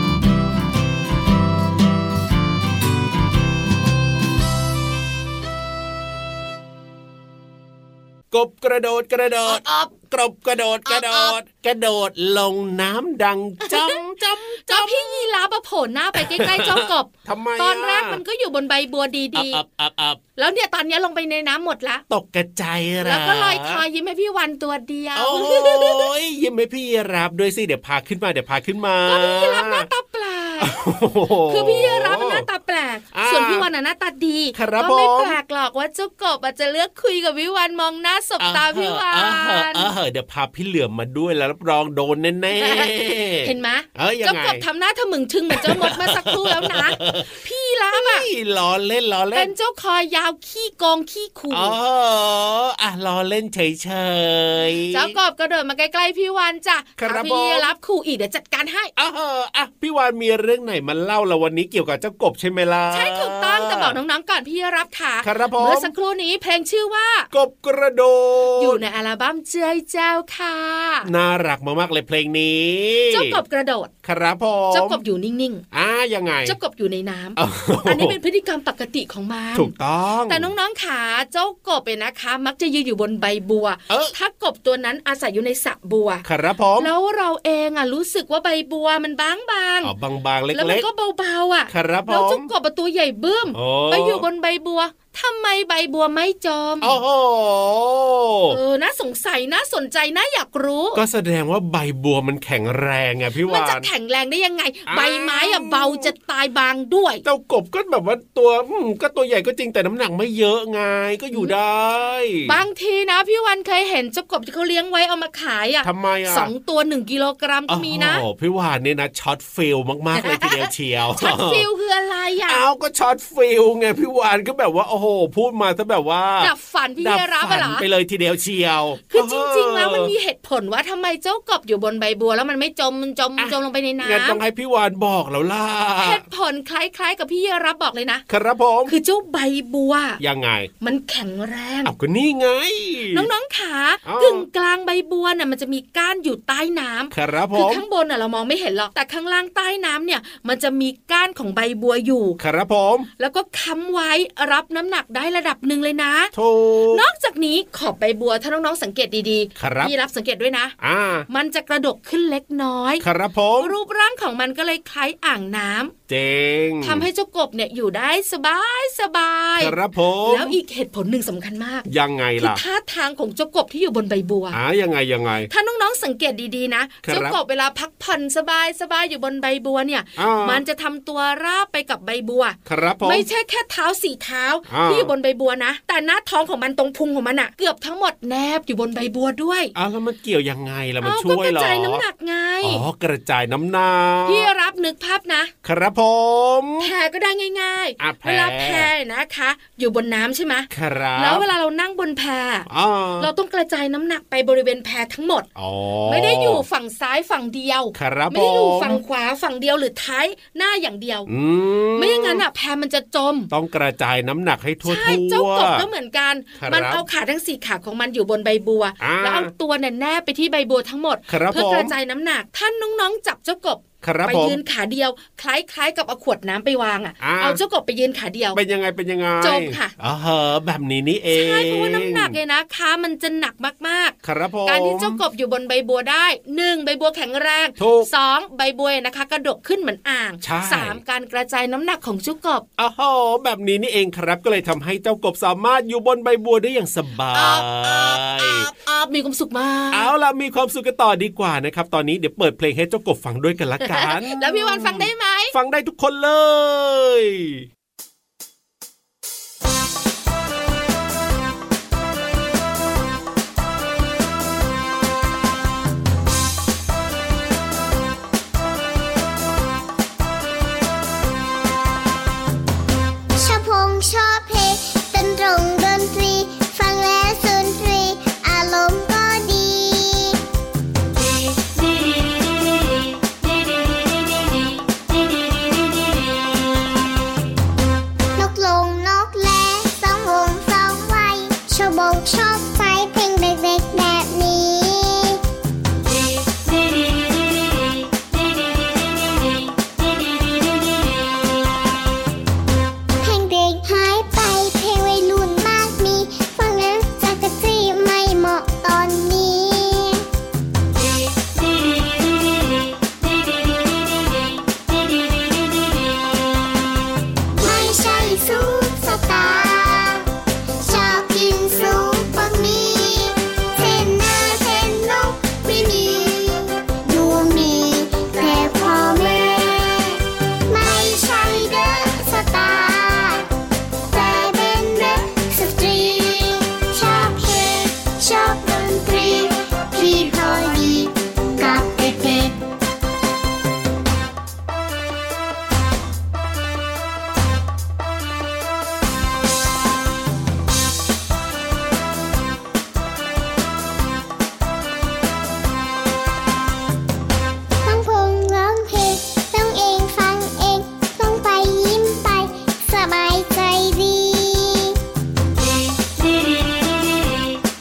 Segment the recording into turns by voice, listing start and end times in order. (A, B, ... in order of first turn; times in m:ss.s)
0:08.3-0:15.2 A
0:09.5-0:09.9 B
0:10.8-0:11.4 B
0:13.6-0:14.0 B
0:14.7-0:19.6 B
0:16.2-0:18.2 A
0:19.3-0:20.2 A
0:20.4-0:22.0 B
0:22.1-0:23.8 A
0:23.0-0:26.1 B
0:25.1-0:29.9 A
0:29.1-0:30.8 B
0:30.6-0:32.4 A
0:31.5-0:39.9 B
0:33.1-0:33.6 A
0:34.5-0:35.4 A
0:38.4-0:44.6 A
0:42.5-0:48.3 B
0:45.5-0:47.4 A
0:47.9-0:49.5 A
0:49.3-0:51.8 B
0:51.5-0:55.1 A
0:54.9-0:58.9 B
0:57.0-0:57.7 A
0:59.0-1:04.0 A
1:02.9-1:07.3 B
1:05.2-1:05.9 A
1:07.3-1:08.8 A
1:08.6-1:11.1 B
1:11.0-1:13.4 A
1:13.1-1:13.9 B
1:14.0-1:15.0 A
1:14.7-1:15.6 B
1:15.7-1:16.5 A
1:16.4-1:19.7 B
1:17.4-1:18.2 A
1:19.5-1:20.5 A
1:20.3-1:26.2 B
1:23.9-1:24.1 A
1:26.2-1:26.9 A
1:26.8-1:29.9 B
1:29.8-1:30.9 A
1:30.5-1:37.0 B
1:31.7-1:32.5 A
1:33.5-1:34.2 A
1:36.8-1:38.6 A
1:38.5-1:41.0 B
1:40.9-1:43.9 A
1:43.4-1:47.2 B
1:44.9-1:46.1 A
1:47.2-1:52.6 A
1:52.4-1:58.2 B
1:55.8-1:56.5 A
1:57.7-2:01.7 A
2:00.2-2:02.6 B
2:02.4-2:10.1 A
2:06.4-2:07.8 B
2:09.1-2:14.4 B
2:13.4-2:16.2 A
2:16.0-2:18.2 B
2:18.3-2:18.9 A
2:18.8-2:20.2 B
2:20.2-2:20.7 A
2:20.8-2:21.9 B
2:21.8-2:23.3 A
2:23.1-2:32.4 B
2:24.0-2:24.4 A
2:27.1-2:27.8 A
2:32.4-2:33.1 A
2:33.2-2:36.3 B
2:36.3-2:37.0 A
2:36.9-2:40.7 B
2:39.6-2:39.9 A
2:40.8-2:41.2 A
2:41.3-2:43.0 B
2:43.0-2:43.7 A
2:43.6-2:45.9 B
2:46.1-2:47.1 A
2:46.8-2:51.8 B
2:49.6-2:50.5 A
2:51.9-2:52.6 A
2:52.4-2:54.6 B
2:54.5-2:55.5 A
2:55.5-3:09.7 B
2:57.0-2:57.4 A
3:00.2-3:00.6 A
3:02.7-3:03.2 A
3:04.7-3:05.1 A
3:09.7-3:12.0 A
3:11.0-3:12.8 B
3:12.6-3:14.5 A
3:14.3-3:15.5 B
3:15.6-3:16.9 A
3:16.8-3:22.7 B
3:18.0-3:18.9 A
3:20.7-3:21.4 A
3:22.7-3:23.3 A
3:23.2-3:25.4 B
3:25.6-3:26.6 A
3:26.1-3:31.3 B
3:27.9-3:29.0 A
3:31.3-3:32.4 A
3:32.0-3:33.5 B
3:33.5-3:35.9 A
3:34.8-3:48.6 B
3:36.6-3:37.0 A
3:39.0-3:39.5 A
3:41.3-3:41.9 A
3:44.0-3:44.6 A
3:47.2-3:47.6 A
3:48.5-3:52.3 A
3:49.4-3:49.9 B
3:51.3-4:02.6 B
3:54.2-3:55.2 A
3:57.8-3:58.1 A
4:00.4-4:01.0 A
4:02.8-4:08.7 A
4:07.3-4:10.1 B
4:09.9-4:17.6 A
4:13.8-4:15.5 B
4:33.4-4:40.4 C
4:48.3-4:55.4 C
5:03.2-5:10.2 C
5:17.5-5:20.2 C
5:20.8-5:33.5 C
5:34.1-5:42.5 C
5:57.8-6:05.0 C